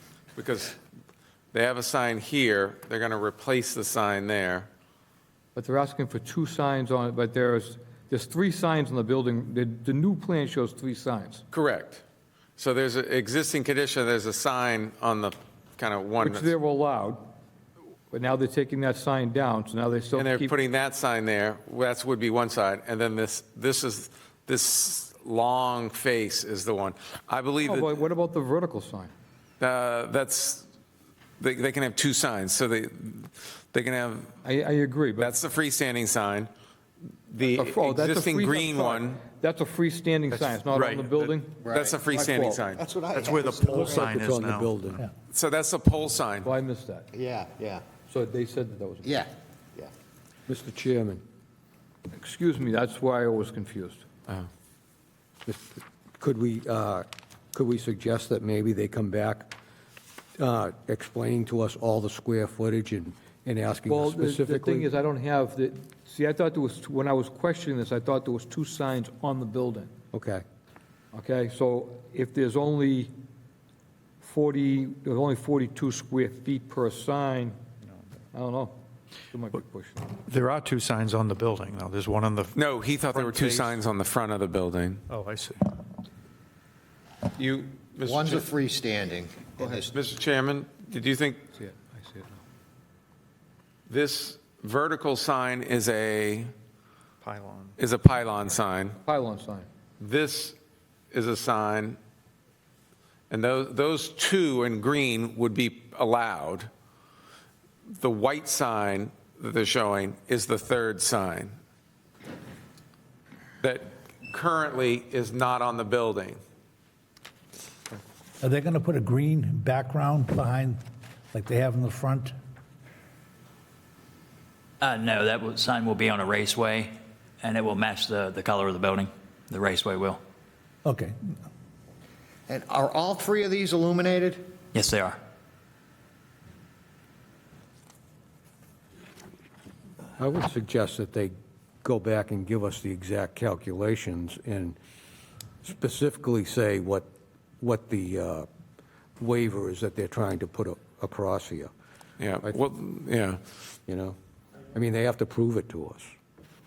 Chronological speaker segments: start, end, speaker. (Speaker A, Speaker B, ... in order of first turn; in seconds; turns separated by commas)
Speaker A: 0.4-0.8, Speaker A: 1.5-4.7, Speaker B: 5.5-11.4, Speaker A: 11.5-12.0, Speaker A: 12.6-16.5, Speaker B: 16.2-17.3, Speaker B: 18.1-20.5, Speaker A: 20.1-28.0, Speaker B: 27.6-29.1, Speaker A: 29.6-30.6, Speaker A: 31.4-34.4, Speaker B: 34.4-35.4, Speaker A: 35.2-36.5, Speaker A: 37.3-39.2, Speaker B: 37.5-41.5, Speaker A: 40.8-42.8, Speaker C: 40.8-41.1, Speaker D: 41.6-44.0, Speaker B: 42.2-42.6, Speaker C: 43.1-44.9, Speaker E: 43.8-45.0, Speaker A: 45.3-46.5, Speaker B: 46.4-47.1, Speaker D: 47.1-47.9, Speaker B: 48.0-49.3, Speaker D: 49.0-49.9, Speaker E: 50.5-51.2, Speaker B: 52.1-54.0, Speaker E: 55.5-59.5, Speaker E: 60.4-64.9, Speaker B: 63.9-69.9, Speaker E: 70.1-70.4, Speaker B: 71.1-73.1, Speaker B: 74.2-77.6, Speaker B: 78.3-78.8, Speaker B: 79.3-80.2, Speaker C: 80.1-82.6, Speaker A: 82.5-85.0, Speaker C: 83.1-83.8, Speaker C: 85.1-85.6, Speaker A: 87.3-88.5, Speaker D: 88.0-90.0, Speaker A: 89.6-91.4, Speaker B: 91.6-92.4, Speaker A: 93.9-96.5, Speaker C: 97.2-97.8, Speaker A: 97.8-99.0, Speaker B: 99.0-99.7, Speaker A: 100.0-100.6, Speaker A: 101.1-102.0, Speaker A: 103.3-106.7, Speaker A: 107.9-111.6, Speaker A: 113.6-116.4, Speaker F: 118.4-120.8, Speaker F: 121.3-122.3, Speaker G: 124.8-130.2, Speaker F: 130.8-131.2, Speaker D: 132.5-134.5, Speaker G: 134.7-135.2, Speaker E: 140.2-144.8, Speaker E: 145.6-147.1, Speaker E: 147.6-148.5, Speaker E: 149.2-151.7, Speaker A: 152.2-153.4, Speaker E: 153.9-154.2, Speaker E: 154.7-156.1